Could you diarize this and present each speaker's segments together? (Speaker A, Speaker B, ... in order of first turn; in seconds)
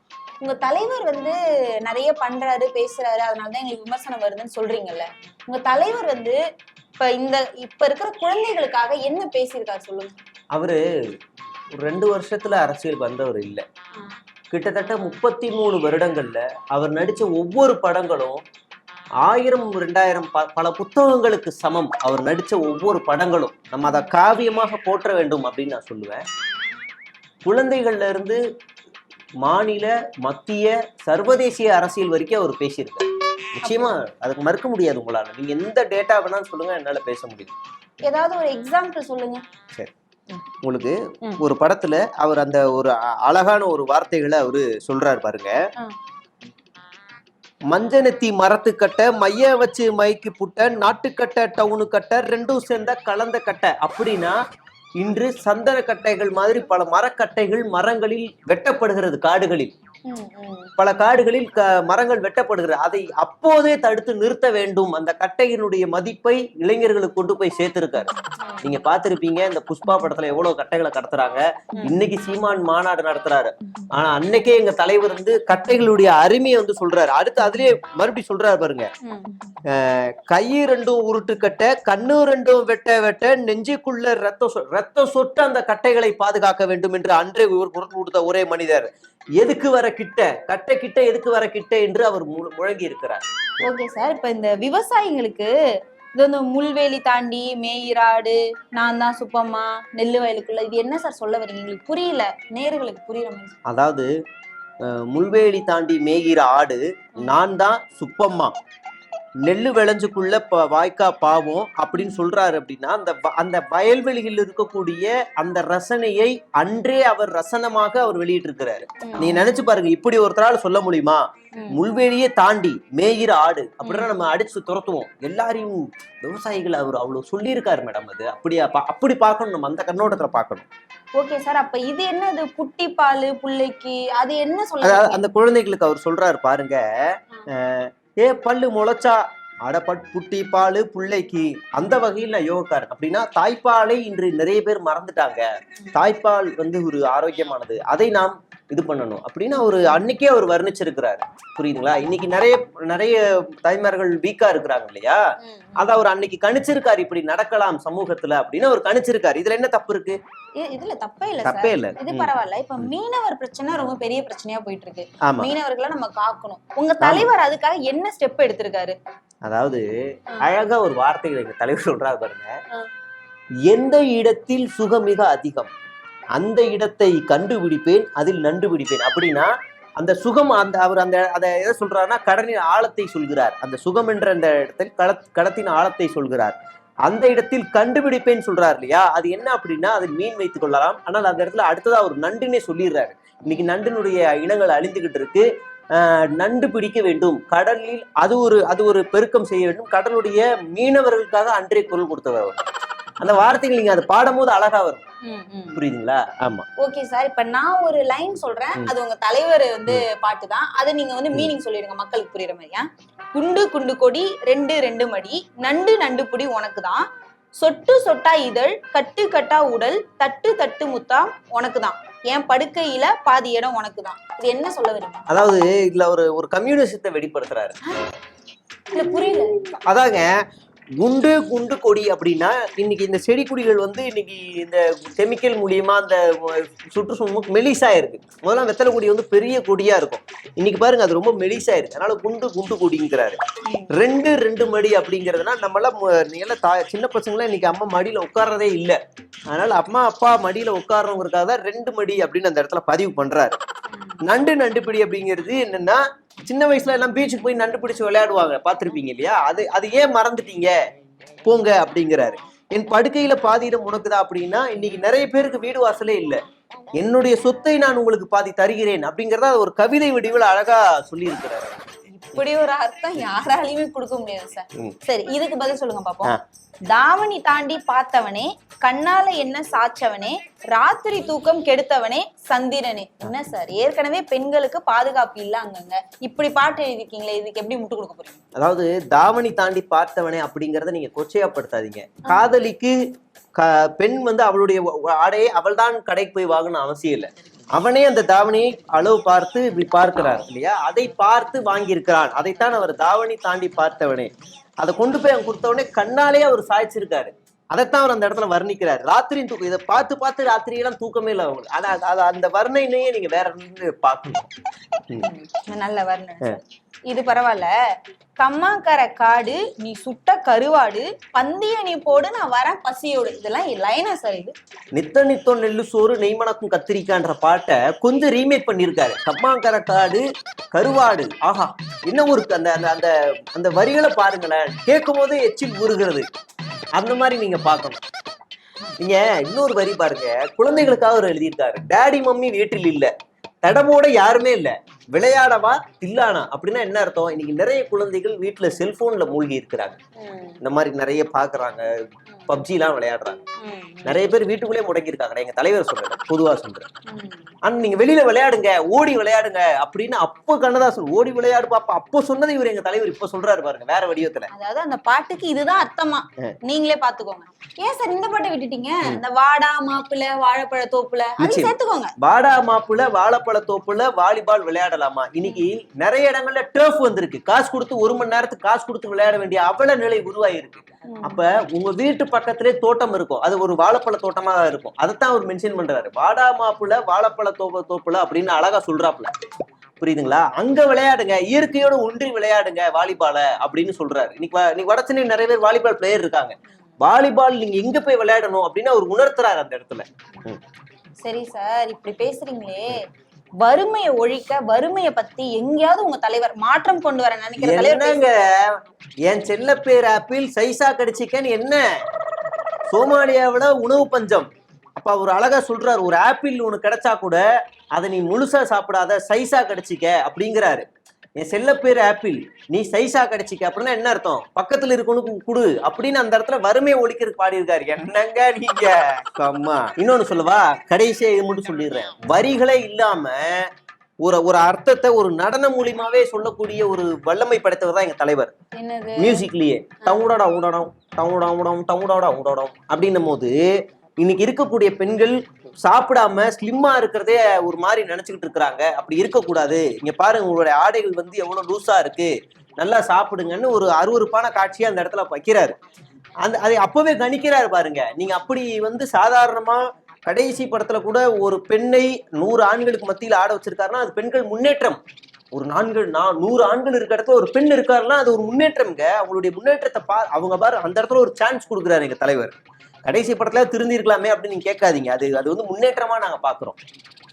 Speaker A: 0.4-6.4, 7.0-10.1, 33.6-34.0, 38.0-39.4, 60.1-60.7, 68.4-68.8, 79.0-79.3, 93.6-95.5, 96.2-103.6, 111.9-112.2, 119.0-119.5, 121.5-121.8, 131.2-135.2, 155.4-155.9, 160.6-168.9, 205.2-205.8, 206.8-225.2, 228.9-229.5, 243.7-243.9, 272.1-276.4, 276.9-288.4, 315.2-317.7, 318.4-324.5, 350.2-350.6, 353.6-354.2, 357.1-357.5, 364.5-372.1, 381.1-381.4, 401.2-403.1, 403.6-408.2, 438.7-439.4
Speaker B: 10.5-10.8, 11.8-13.6, 14.5-18.4, 19.2-26.2, 27.4-28.4, 29.4-37.5, 40.6-45.6, 47.7-54.4, 55.0-59.7, 60.8-78.9, 79.7-93.2, 103.7-104.1, 104.8-108.5, 109.4-130.7, 134.8-155.2, 155.8-160.2, 161.4-162.9, 165.2-165.5, 167.0-167.3, 169.4-172.6, 173.7-175.7, 176.3-186.5, 187.1-202.6, 203.2-205.0, 205.8-206.7, 225.3-227.8, 229.6-230.3, 231.0-243.4, 243.9-249.0, 249.5-253.6, 254.2-260.8, 261.4-266.4, 266.9-271.9, 288.6-292.9, 293.6-304.3, 304.8-314.5, 324.9-336.2, 336.9-338.0, 339.0-343.1, 343.6-350.0, 350.6-351.9, 352.5-353.4, 354.0-356.9, 357.6-364.5, 371.4-389.3, 390.0-400.6, 407.6-411.9, 412.9-420.9, 421.4-433.7, 434.2-438.5, 439.2-455.8, 456.4-465.0, 465.5-472.5, 473.1-476.8